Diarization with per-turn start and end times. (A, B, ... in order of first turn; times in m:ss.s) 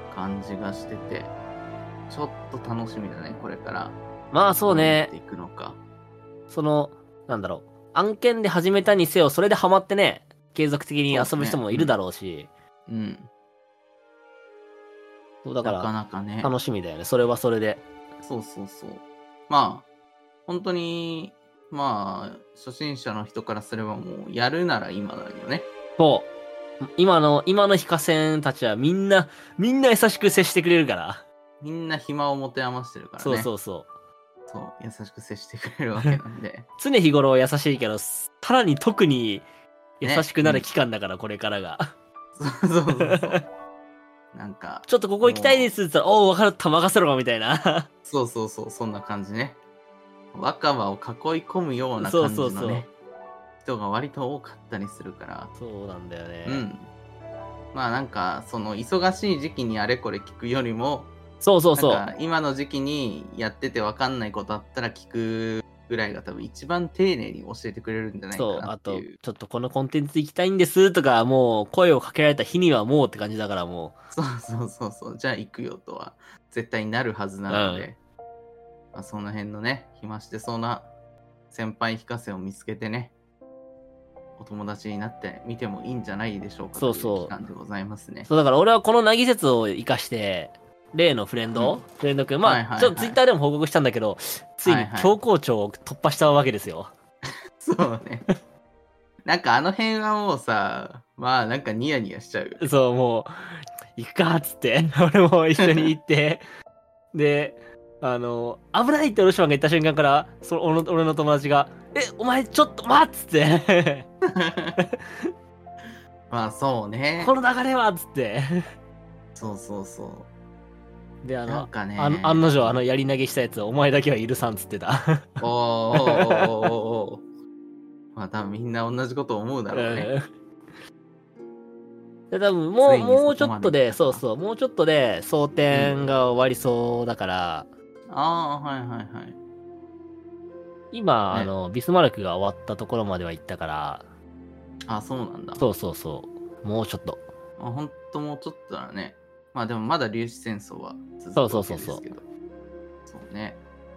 0:00.1-0:01.3 A
0:02.1-0:04.0 A
0:04.3-0:05.1 B
0:04.6-0:05.8 A
0:06.5-0:12.5 B
0:11.1-0:12.0 A
0:12.9-0:13.3 A
0:15.4-0:17.8 B
0:15.6-0:16.5 A
0:18.2-0:19.9 A
0:20.5-0:25.7 A
0:26.0-0:26.3 B
0:26.8-0:31.2 B
0:31.6-0:33.5 A
0:33.2-0:33.9 B
0:34.5-0:36.7 A
0:36.8-0:39.5 B
0:40.0-0:41.9 B
0:40.0-0:40.7 A
0:42.4-0:43.4 A
0:42.9-0:43.4 B
0:44.3-0:45.7 A
0:44.9-0:47.9 B
0:48.1-0:49.6 A
0:50.3-0:52.9 A
0:52.0-0:52.9 B
0:53.6-0:55.5 A
0:55.6-0:56.7 B
0:56.4-0:56.9 A
0:57.7-1:01.1 A
1:01.4-1:02.1 B
1:01.8-1:09.1 A
1:08.4-1:14.0 B
1:14.1-1:18.0 A
1:17.5-1:17.9 B
1:18.9-1:20.9 A
1:21.5-1:23.1 A
1:24.4-1:28.3 A
1:26.8-1:27.3 B
1:28.3-1:36.9 B
1:31.5-1:31.8 A
1:32.4-1:33.2 A
1:34.6-1:35.2 A
1:37.6-1:38.2 A
1:39.2-1:42.6 A
1:42.6-1:43.3 B
1:44.0-1:46.4 B
1:45.6-1:45.9 A
1:47.1-1:54.1 B
1:54.3-1:54.8 A
1:54.8-1:55.3 B
1:56.3-1:57.4 A
1:57.2-1:58.6 B
1:59.4-2:00.3 A
2:01.2-2:06.5 B
2:01.5-2:02.8 A
2:05.4-2:07.2 A
2:08.2-2:10.1 A
2:09.7-2:10.3 B
2:12.3-2:17.7 B
2:12.8-2:14.2 A
2:15.7-2:16.2 A
2:18.1-2:19.4 A
2:20.9-2:24.1 B
2:24.9-2:25.7 A
2:25.6-2:27.2 B
2:27.6-2:32.2 A
2:31.4-2:32.0 B
2:33.1-2:33.6 A